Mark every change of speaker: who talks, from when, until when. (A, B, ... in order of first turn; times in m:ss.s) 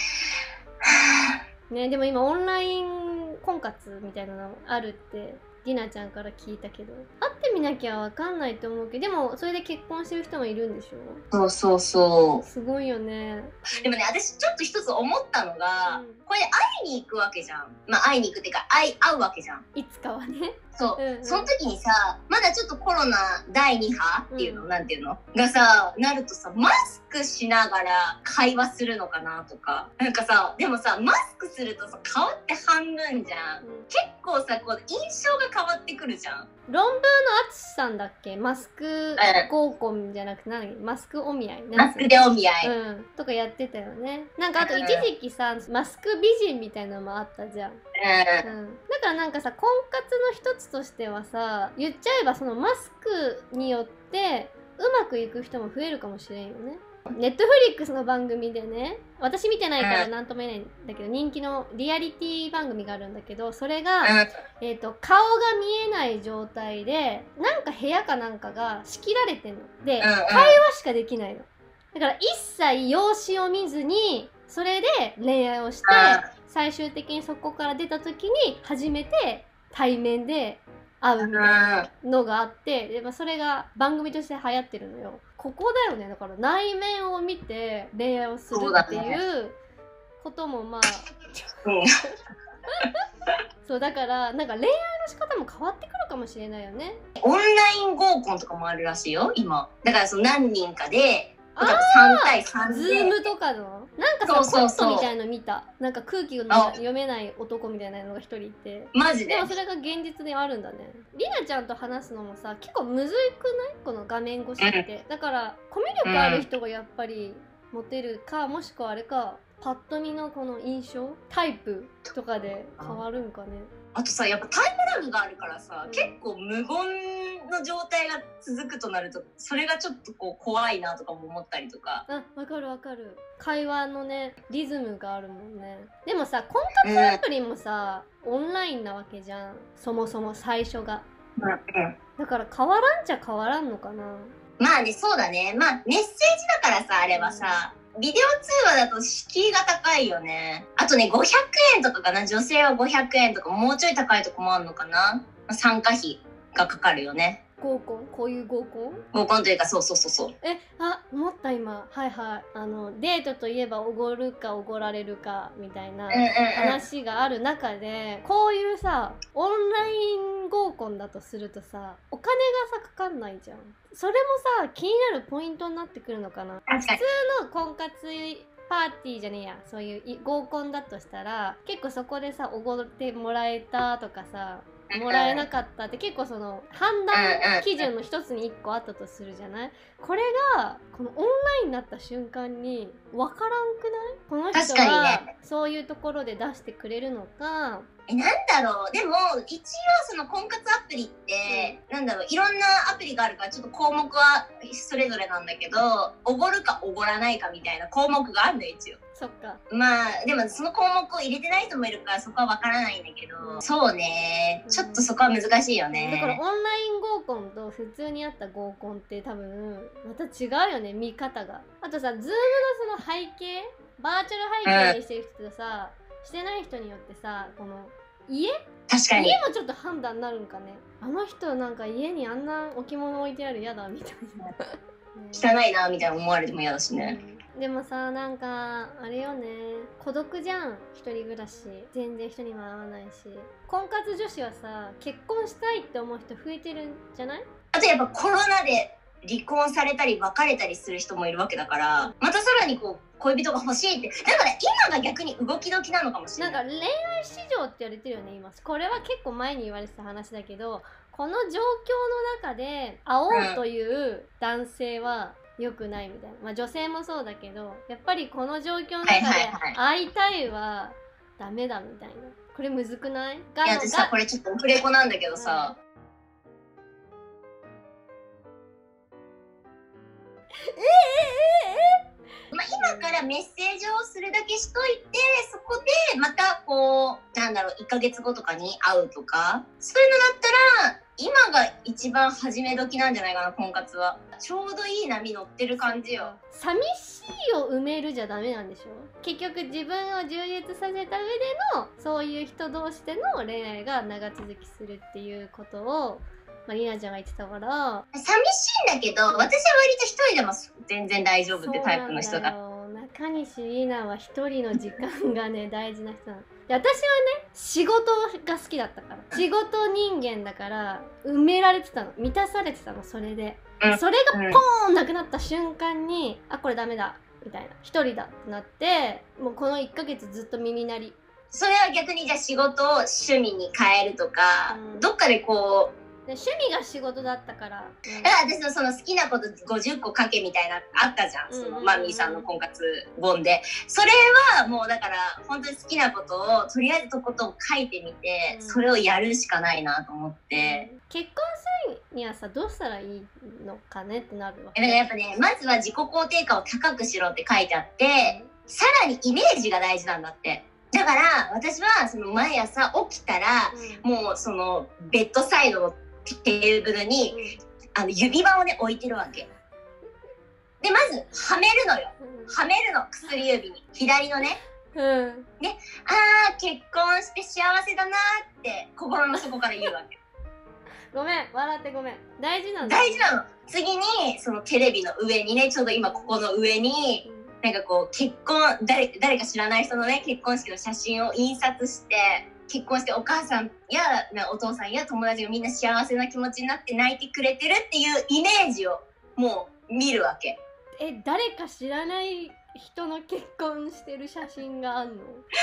0:00.9-0:01.3 A
0:01.7-0:11.2 B
0:11.3-0:12.4 A
0:12.4-0:14.0 B
0:13.8-0:19.6 A
0:15.8-0:16.2 B
0:19.7-0:21.5 B
0:20.8-0:36.5 A
0:24.3-0:24.7 B
0:33.6-0:33.9 B
0:36.7-0:47.8 B
0:39.2-0:39.5 A
0:41.7-0:42.7 A
0:44.6-0:45.0 A
0:48.0-0:48.4 A
0:48.4-1:29.6 B
0:59.8-1:00.1 A
1:10.0-1:10.6 A
1:15.9-1:16.3 A
1:21.2-1:21.9 A
1:28.5-1:29.2 A
1:30.2-1:31.1 B
1:32.7-1:33.0 B
1:33.6-1:37.0 B
1:37.2-1:43.1 A
1:41.5-2:03.7 B
1:44.3-1:45.1 A
1:46.5-1:46.8 A
1:48.9-1:49.5 A
1:54.6-1:54.8 A
1:56.0-1:56.5 A
2:03.9-2:12.0 A
2:05.8-2:06.2 B
2:12.1-2:21.0 B
2:16.8-2:17.2 A
2:21.4-2:21.9 A
2:22.2-2:24.3 B
2:24.6-2:37.4 A
2:27.1-2:27.6 B
2:37.6-2:39.0 B
2:39.1-2:40.3 A
2:40.4-3:17.9 B
2:46.1-2:46.8 A
2:56.7-2:57.0 A
3:04.9-3:05.4 A
3:07.1-3:07.9 A
3:14.5-3:15.2 A
3:18.1-3:29.0 A
3:21.5-3:21.8 B
3:29.1-3:29.6 B
3:29.7-3:36.4 A
3:33.4-3:33.7 B
3:34.7-3:35.1 B
3:35.9-3:48.6 B
3:44.6-3:45.0 A
3:48.9-3:49.4 A
3:49.1-3:55.5 B
3:55.3-3:57.2 A
3:57.0-4:07.5 B
4:07.7-4:16.6 A
4:16.4-4:34.1 B
4:23.3-4:23.6 A
4:29.0-4:29.8 A
4:33.6-4:35.7 A
4:35.4-4:35.8 B
4:40.7-4:42.0 B
4:42.5-4:56.3 A
4:42.8-4:43.1 B
4:55.8-5:08.0 B
5:08.1-5:12.5 A
5:11.5-5:31.2 B
5:23.8-5:24.6 A
5:31.5-5:35.9 A
5:34.7-5:35.1 B
5:36.3-5:38.3 B
5:38.2-5:50.9 A
5:41.5-5:42.5 B
5:48.5-5:48.8 B
5:50.6-5:55.1 B
5:54.7-6:07.4 A
5:58.2-5:58.5 B
6:03.7-6:04.0 B
6:07.3-6:07.6 B
6:08.0-6:09.4 A
6:10.8-6:14.6 A
6:12.2-6:12.6 B
6:14.9-6:15.5 B
6:15.6-6:20.1 A
6:19.3-6:19.9 B
6:21.1-6:23.3 B
6:22.8-6:40.6 A
6:26.0-6:26.5 B
6:27.2-6:27.5 B
6:41.0-6:45.4 B